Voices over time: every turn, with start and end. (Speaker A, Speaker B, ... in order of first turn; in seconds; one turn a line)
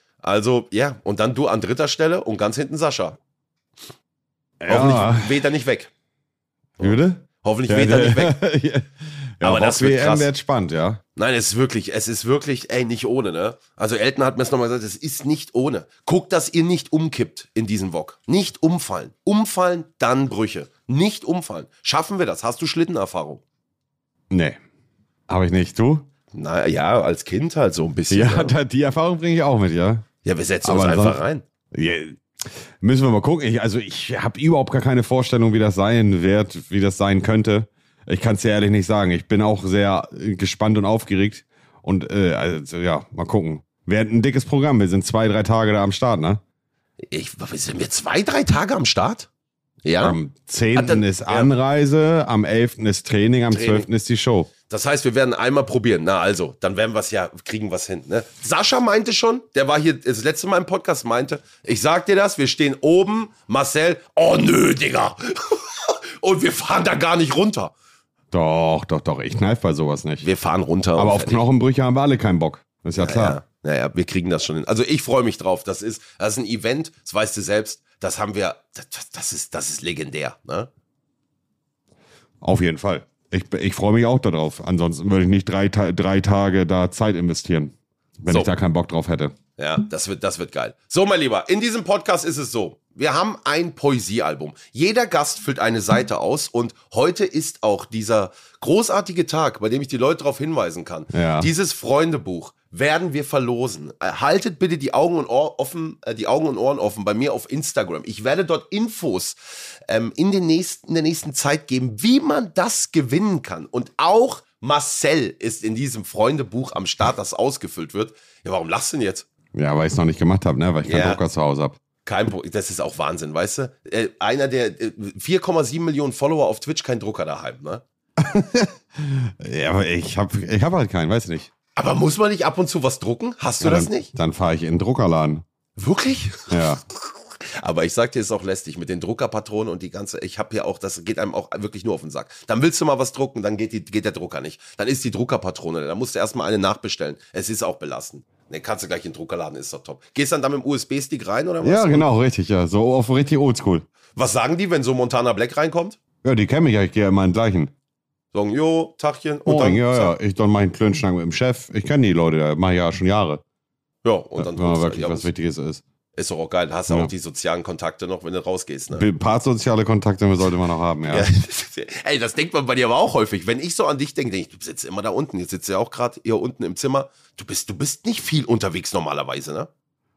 Speaker A: 0.2-3.2
Speaker B: 4.6-5.4
Speaker A: 4.7-5.9
Speaker A: 6.8-8.4
Speaker B: 6.8-11.0
Speaker A: 9.4-10.3
Speaker A: 11.2-23.4
Speaker B: 24.3-24.6
Speaker B: 25.3-26.1
Speaker A: 26.3-28.5
Speaker B: 28.1-30.1
Speaker A: 30.2-31.4
Speaker B: 30.6-31.2
Speaker B: 31.7-32.2
Speaker B: 32.8-46.4
Speaker A: 47.1-49.3
Speaker A: 49.8-50.2
Speaker B: 50.0-54.5
Speaker A: 50.8-51.5
Speaker A: 53.5-53.9
Speaker A: 54.7-67.7
Speaker B: 68.3-70.3
Speaker A: 70.2-71.5
Speaker B: 71.0-73.4
Speaker A: 73.0-80.7
Speaker B: 82.4-89.3
Speaker A: 89.6-119.3
Speaker B: 101.1-101.5
Speaker B: 119.5-121.8
Speaker A: 120.8-121.2
Speaker A: 122.0-127.8
Speaker B: 128.2-131.5
Speaker A: 131.8-134.1
Speaker B: 133.6-135.4
Speaker A: 135.8-136.8
Speaker B: 136.5-136.8
Speaker A: 137.5-152.1
Speaker B: 151.6-153.9
Speaker A: 154.2-156.0
Speaker B: 156.2-157.7
Speaker A: 158.3-160.1
Speaker B: 159.5-163.4
Speaker A: 164.0-165.3
Speaker B: 164.4-165.8
Speaker A: 166.2-169.1
Speaker B: 168.9-171.3
Speaker A: 171.1-179.7